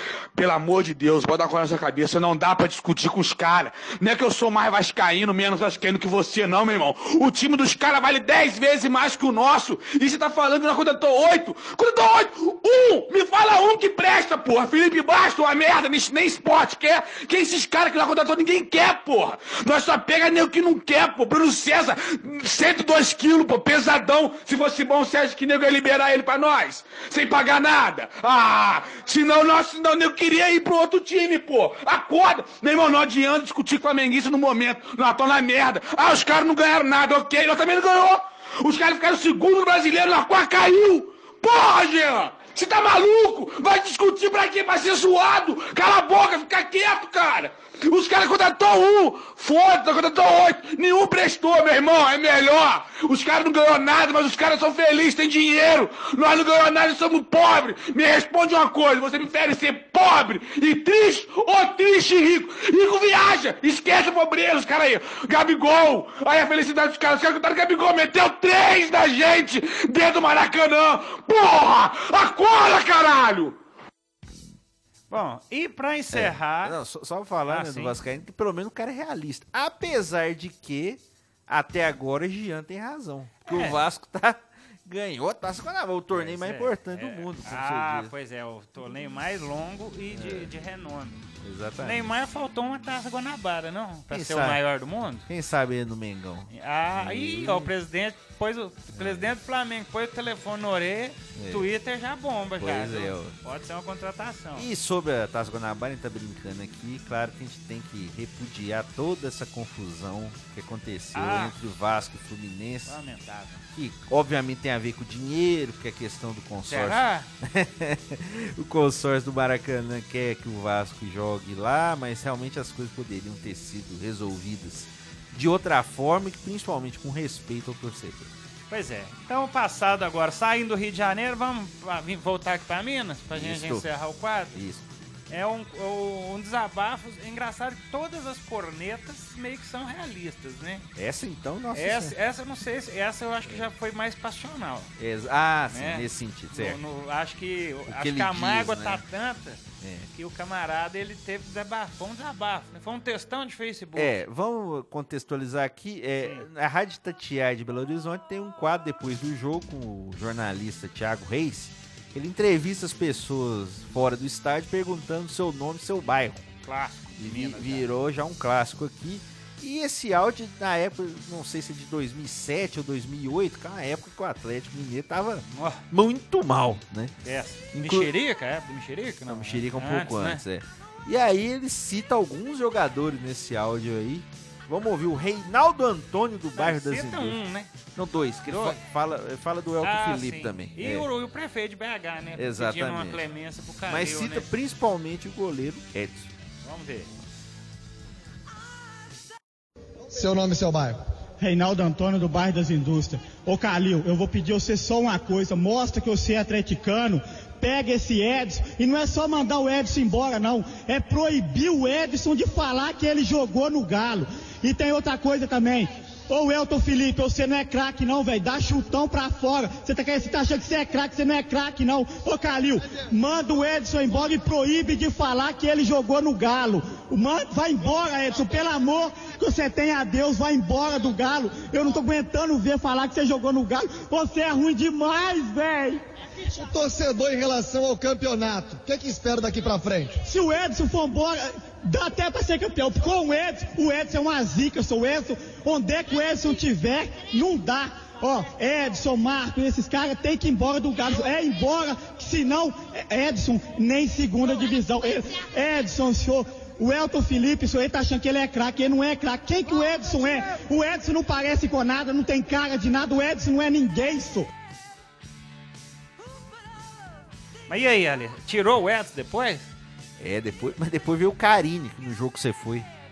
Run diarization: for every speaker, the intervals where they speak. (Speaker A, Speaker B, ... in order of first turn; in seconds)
Speaker A: 0.3-73.6
Speaker B: 75.1-76.7, 77.5-78.0, 83.5-83.8, 86.1-95.2, 96.5-104.7, 111.1-111.6, 112.8-113.6, 116.7-117.3, 128.7-134.6, 135.3-140.8, 141.7-144.9, 145.7-149.6, 150.1-154.1, 166.7-167.9, 175.5-175.8, 177.2-180.4, 186.5-187.7, 188.5-188.8, 189.8-194.5, 196.6-197.1, 267.7-269.7
Speaker C: 76.1-88.1, 90.1-90.5, 91.4-92.1, 94.1-94.6, 95.3-97.7, 98.9-99.3, 101.3-101.7, 102.6-103.3, 104.5-113.0, 113.7-128.3, 133.3-133.9, 134.5-134.9, 140.9-142.2, 145.0-146.8, 147.8-149.0, 149.8-150.1, 153.9-166.5, 167.2-177.1, 177.7-178.1, 179.3-187.4, 187.9-191.1, 192.3-193.3, 193.8-196.3, 270.2-272.9
Speaker D: 200.1-201.0, 236.5-240.2
Speaker E: 201.4-236.0, 240.2-264.5